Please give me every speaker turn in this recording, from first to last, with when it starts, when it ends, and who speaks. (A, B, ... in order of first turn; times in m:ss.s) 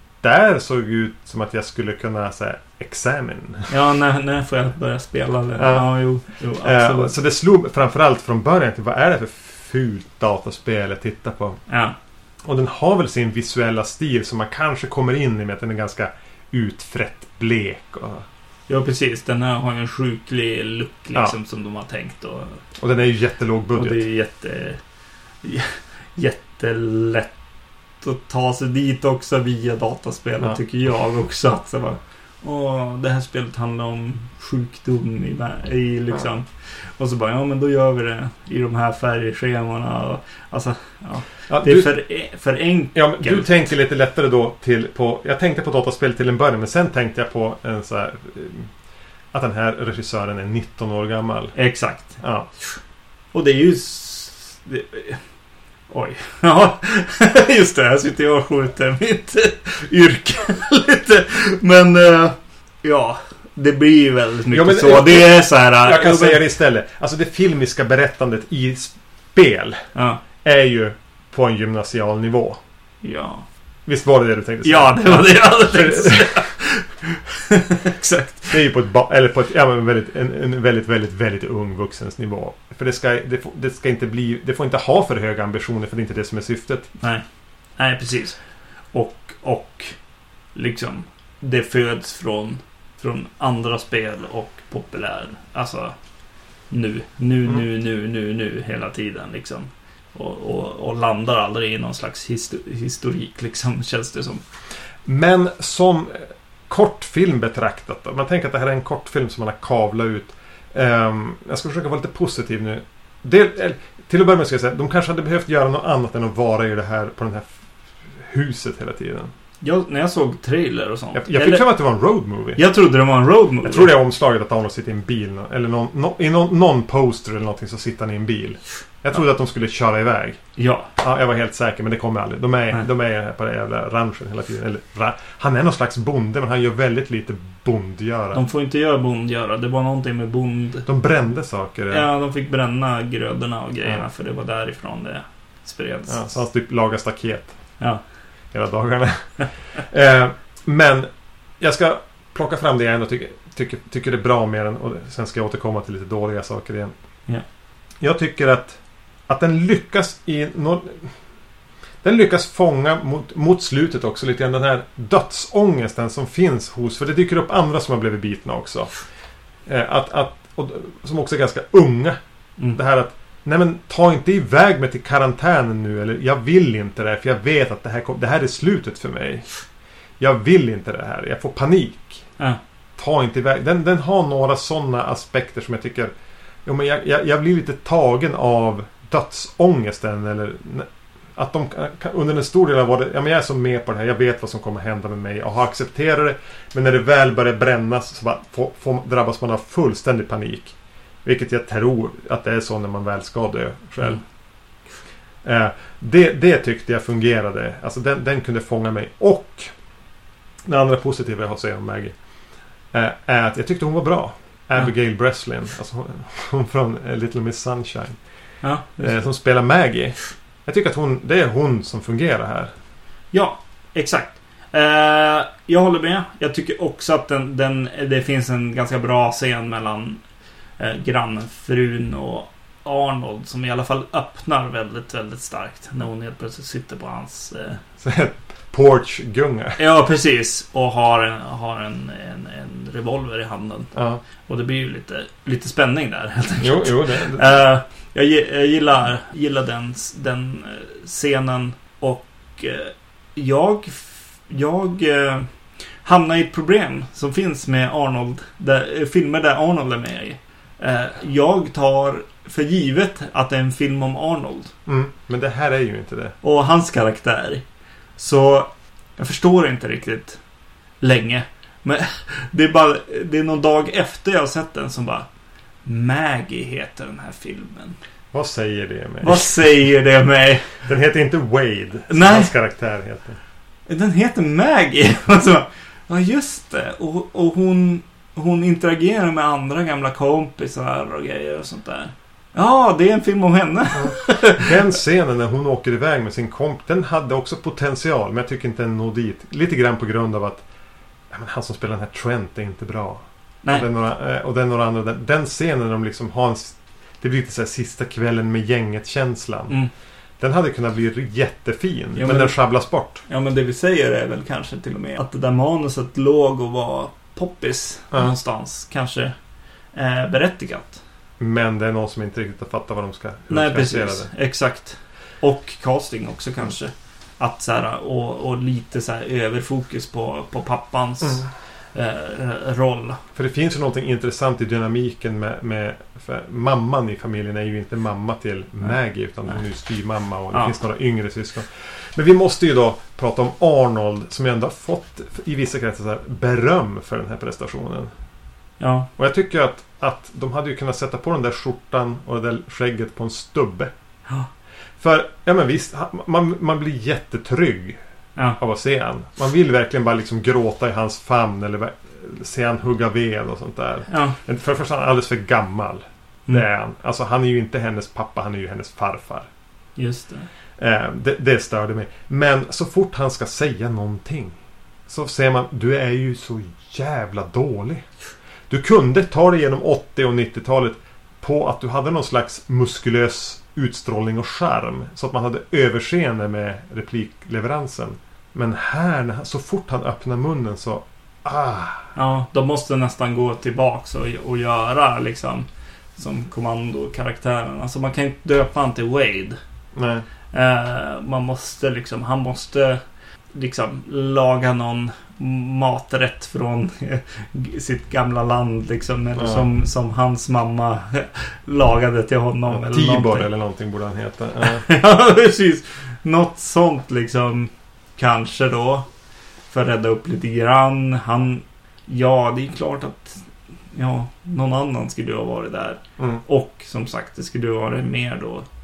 0:00.2-0:03.7 A
0:03.7-0:07.1 B
0:05.6-0:11.6 A
0:11.7-0:11.9 B
0:12.4-0:18.2 A
0:18.7-0:22.6 B
0:22.8-0:24.0 A
0:23.7-0:24.8 B
0:25.4-0:27.4 B
0:28.0-0:43.5 B
0:41.5-0:41.9 A
0:42.9-0:48.7 A
0:49.3-0:51.6 A
0:51.6-0:52.7 B
0:52.2-0:52.5 A
0:53.3-0:55.2 B
0:55.9-1:06.4 B
1:04.5-1:09.8 A
1:09.9-1:10.2 B
1:10.4-1:12.6 A
1:13.0-1:13.5 B
1:13.8-1:16.5 A
1:14.6-1:18.6 B
1:18.5-1:26.9 A
1:27.8-1:30.0 B
1:30.5-1:36.0 B
1:36.7-1:44.4 B
1:45.0-1:57.5 A
1:58.2-1:59.3 A
1:59.6-2:01.6 B
2:01.1-2:02.6 A
2:02.6-2:03.9 B
2:03.6-2:10.4 A
2:10.6-2:10.9 B
2:11.0-2:18.4 A
2:18.3-2:20.9 B
2:20.8-2:22.0 A
2:21.9-2:26.2 B
2:26.1-2:27.8 A
2:27.8-2:28.1 B
2:28.5-2:36.9 A
2:38.0-2:41.2 A
2:42.0-2:49.0 A
2:49.6-2:59.6 A
3:00.2-3:02.3 A
3:03.0-3:06.1 A
3:06.6-3:24.3 A
3:25.4-3:29.8 A
3:30.6-3:32.2 A
3:32.9-3:38.2 A
3:38.6-3:39.2 B
3:39.0-3:42.7 A
3:43.3-3:50.2 B
3:50.8-3:57.8 B
3:58.0-3:59.8 A
3:59.8-4:03.9 B
4:03.9-4:04.2 A
4:04.4-4:24.7 B
4:06.6-4:07.5 A
4:24.8-4:26.4 A
4:26.4-4:27.6 B
4:28.2-4:30.4 B
4:31.0-4:35.3 B
4:35.8-4:38.0 B
4:38.3-4:39.7 A
4:39.2-4:40.8 B
4:40.8-4:43.4 A
4:42.1-4:42.5 B
4:43.9-4:54.7 B
4:53.9-5:00.6 A
5:01.3-5:09.8 A
5:10.4-5:13.2 A
5:12.2-5:12.6 B
5:13.2-5:19.3 B
5:19.9-5:21.0 B
5:21.4-5:24.3 A
5:23.5-5:33.2 B
5:31.2-5:31.5 A
5:33.3-5:48.1 A
5:48.8-5:49.1 B
5:49.2-5:53.9 A
5:55.0-5:58.0 A
5:58.6-6:09.5 A
6:04.1-6:04.4 B
6:10.0-6:10.5 B
6:10.8-6:14.6 A
6:15.1-6:18.0 A
6:18.7-6:32.1 A
6:32.2-6:39.6 B
6:39.9-6:40.2 A
6:40.5-6:43.0 B
6:43.5-6:53.5 B
6:49.4-6:49.7 A
6:52.7-6:54.8 A
6:54.6-6:59.1 B
6:59.7-7:08.6 B